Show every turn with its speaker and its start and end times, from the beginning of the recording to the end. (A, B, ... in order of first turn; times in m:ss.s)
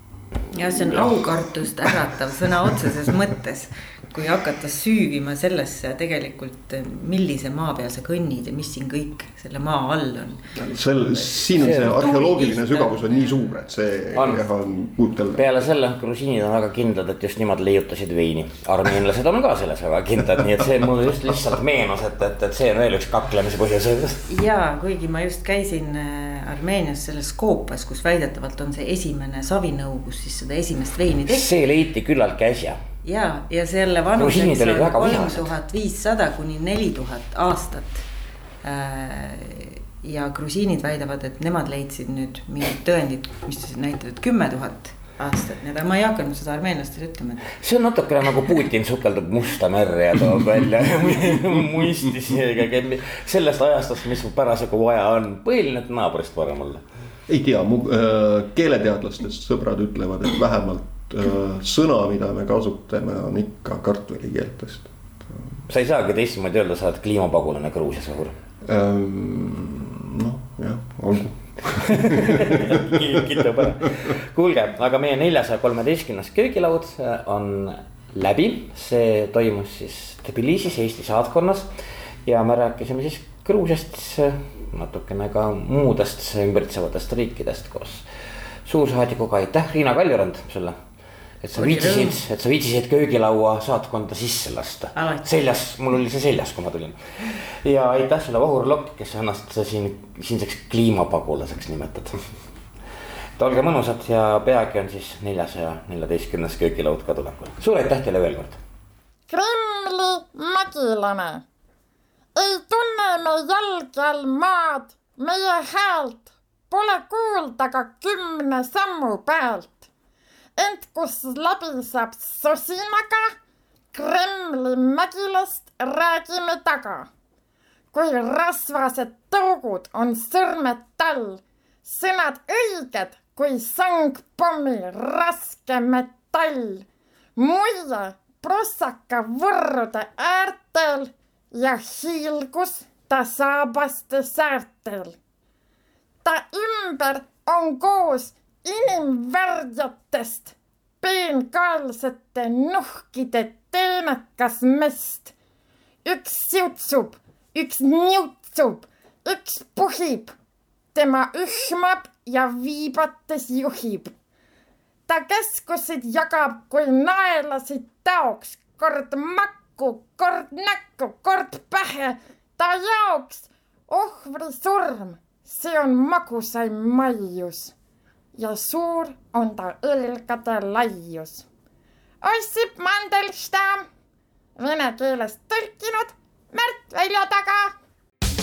0:00.5-0:10.5 A
0:10.6-0:15.4 B
0:11.1-0:13.3 A
0:11.6-0:12.0 C
0:14.2-0:14.4 C
0:15.4-0:24.2 C
0:24.3-0:31.5 A
0:31.3-0:32.8 C
0:33.0-0:38.0 A
0:34.2-0:35.5 C
0:38.6-0:47.5 A
0:47.6-0:56.8 C
0:57.3-1:05.5 B
1:05.7-1:08.4 C
1:08.6-1:13.6 B
1:11.8-1:21.7 C
1:22.2-1:28.1 C
1:28.6-1:30.8 C
1:31.4-1:42.2 C
1:31.6-1:32.2 A
1:35.0-1:35.3 A
1:43.4-1:48.6 C
1:49.3-1:51.4 D
1:52.4-1:59.9 D
2:00.6-2:03.4 D
2:03.9-2:07.1 D
2:07.9-2:25.2 D
2:26.2-2:35.3 D
2:36.0-2:40.3 D
2:40.9-2:44.1 D
2:45.1-2:57.7 D
2:58.4-3:01.4 D
3:02.2-3:03.9 D
3:04.6-3:07.8 D